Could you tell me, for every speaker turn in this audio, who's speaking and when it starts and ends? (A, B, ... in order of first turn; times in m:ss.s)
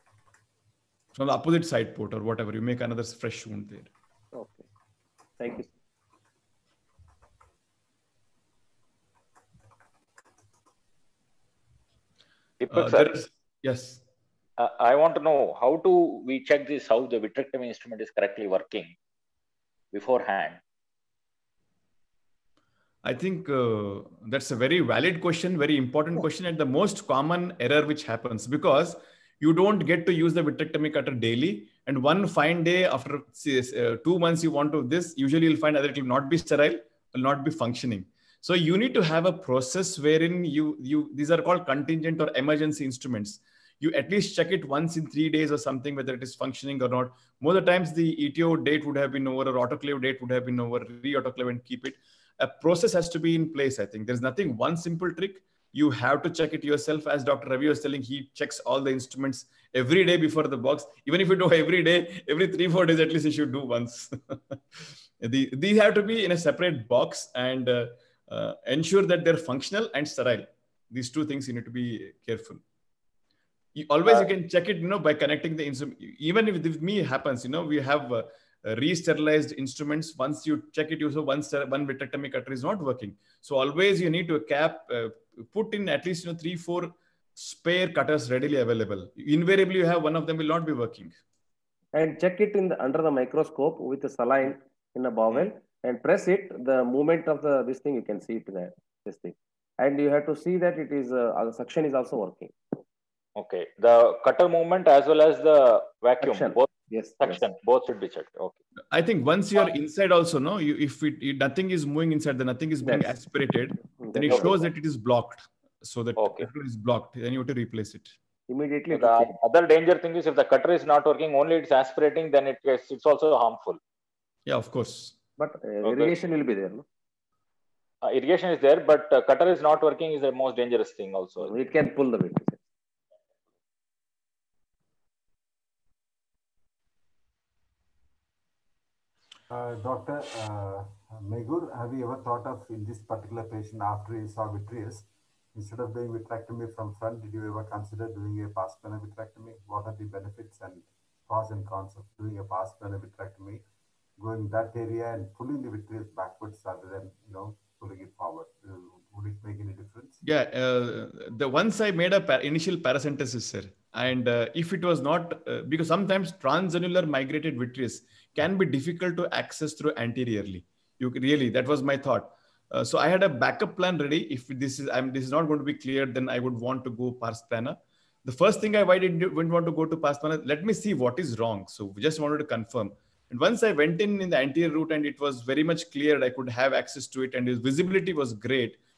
0:01.2-0:03.9 A
0:04.3-0:04.6 B
0:05.4-0:05.7 B
0:12.6-0:13.2 C
0:12.7-0:14.0 A
0:14.6-0:19.0 C
0:19.9-0:20.6 C
0:23.0-1:12.6 A
1:13.8-1:31.1 A
1:31.9-1:42.6 B
1:43.4-1:46.7 C
1:46.2-1:47.5 B
1:47.2-1:48.6 C
1:48.9-1:58.2 A
1:52.8-1:53.2 B
1:53.9-1:54.6 B
1:56.2-1:56.5 C
1:58.5-1:59.3 B
1:58.9-2:03.8 C
2:04.5-2:05.2 A
2:05.4-2:06.8 B
2:05.8-2:06.2 C
2:08.0-2:11.5 C
2:11.4-2:12.6 B
2:19.5-2:33.6 D
2:34.2-2:40.2 D
2:40.2-3:08.8 A